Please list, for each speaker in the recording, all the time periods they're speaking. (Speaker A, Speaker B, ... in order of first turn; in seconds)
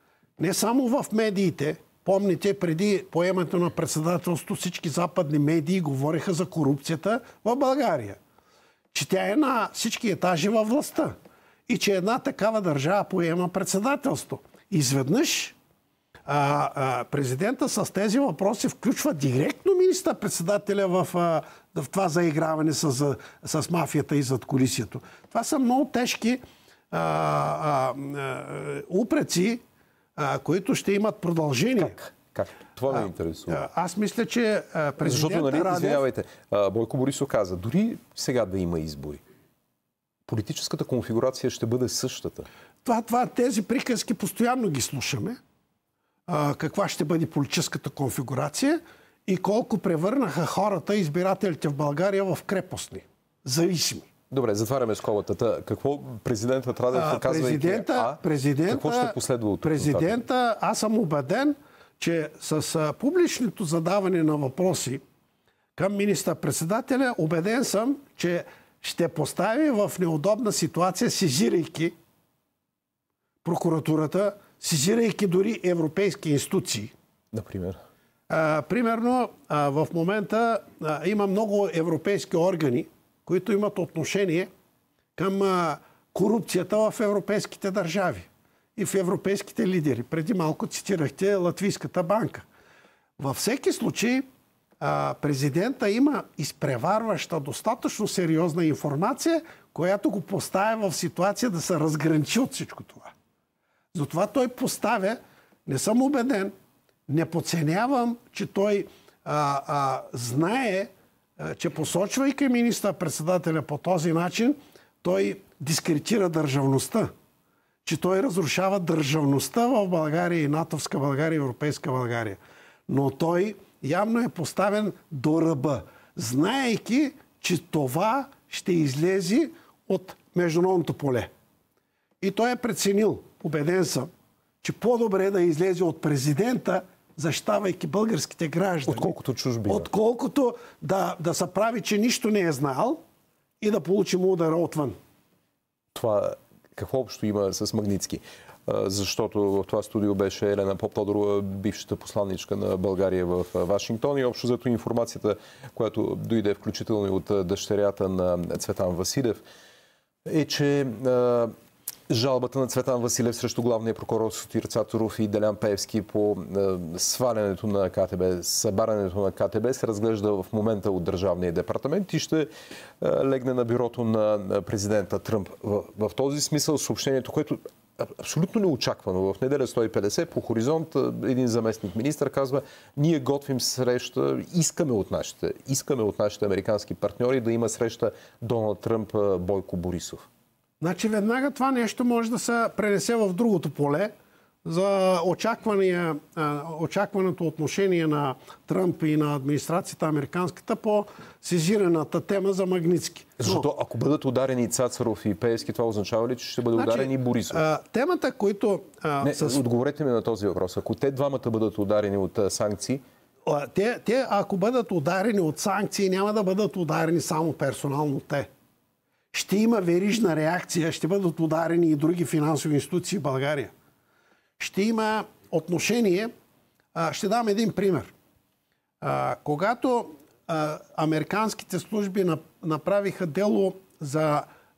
Speaker A: 0.4-8.2, 8.9-11.1, 11.7-15.5, 16.2-29.6, 30.1-31.9, 32.9-36.0, 42.8-45.4, 46.3-54.1, 56.9-65.0, 65.8-71.9, 73.4-76.9, 78.3-84.5, 85.2-92.5, 93.2-94.2, 94.8-103.1, 103.9-106.5, 107.1-117.1, 117.8-131.3, 132.2-134.1, 134.6-139.1, 139.7-143.0, 143.6-144.9, 190.8-194.1, 194.6-203.7, 206.7-209.6, 213.4-218.5, 219.3-223.7, 224.6-226.3, 226.9-228.1, 229.0-234.5
Speaker B: 31.8-33.6, 35.0-39.2, 40.3-42.5, 54.3-60.2, 77.3-77.8, 138.9-139.9, 145.9-159.4, 160.2-161.5, 162.1-190.2, 203.4-207.6, 209.2-213.0